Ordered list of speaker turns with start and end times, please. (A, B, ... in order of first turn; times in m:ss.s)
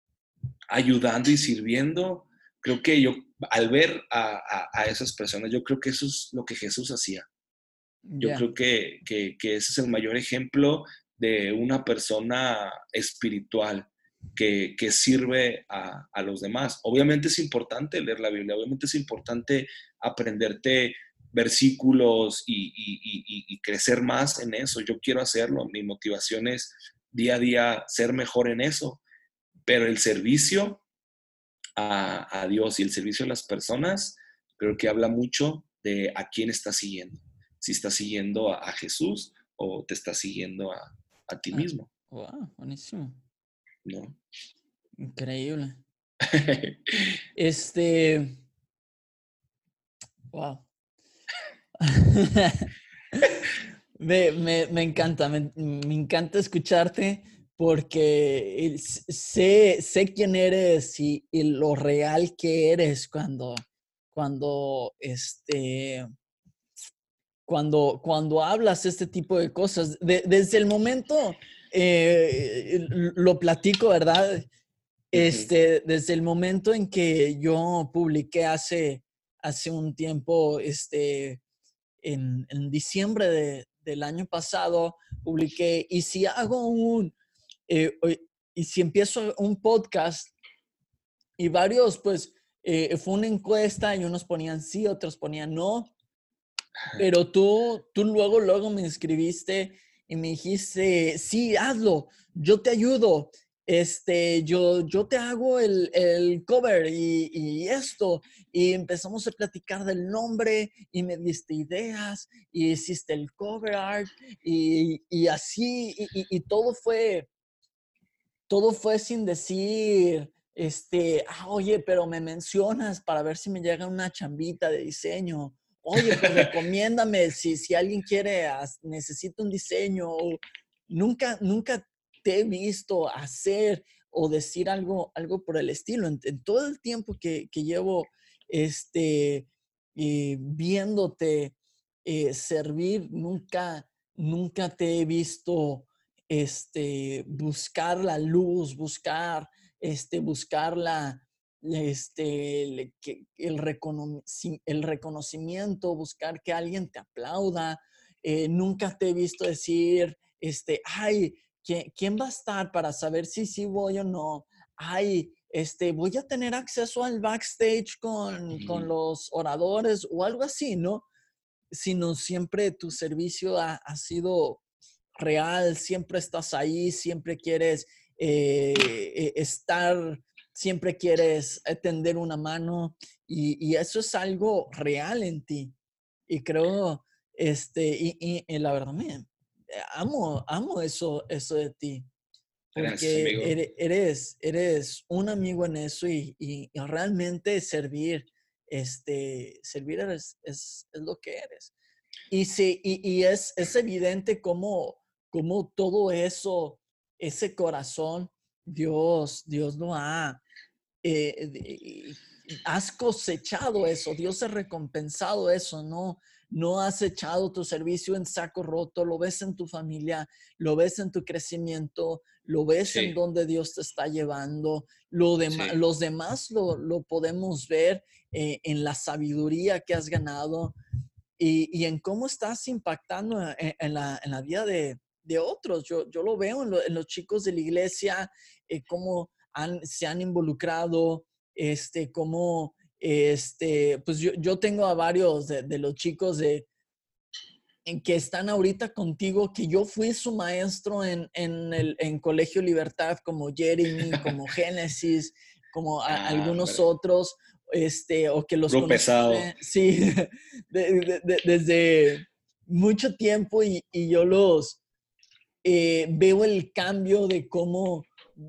0:00.7-0:07.3 A
0:08.1-0:08.4 B
0:08.2-0:29.0 A
0:29.6-0:30.8 A
0:31.8-0:41.9 A
0:41.5-0:43.2 B
0:43.8-0:44.2 A
0:45.0-0:45.8 B
0:46.2-0:46.8 A
0:47.3-0:48.4 B
0:50.3-0:50.7 B
0:51.8-0:53.3 B
0:54.0-1:06.1 B
1:07.5-1:14.5 B
1:15.1-1:21.4 B
1:15.1-1:15.5 A
1:22.0-1:27.1 B
1:27.7-1:30.3 B
1:31.4-1:35.9 B
1:37.0-1:57.3 B
1:58.5-2:51.0 B
2:06.1-2:06.5 A
2:48.5-2:48.9 A
2:51.7-2:54.6 B
2:55.2-3:05.7 B
3:06.3-3:12.1 B
3:12.7-3:13.6 A
3:12.7-3:21.7 B
3:22.3-3:30.4 B
3:31.0-3:50.8 B
3:42.9-3:43.2 A
3:45.5-3:45.8 A
3:51.4-4:06.7 B
4:07.8-4:24.8 B
4:16.1-4:16.8 A
4:18.7-4:19.5 A
4:25.6-4:28.1 B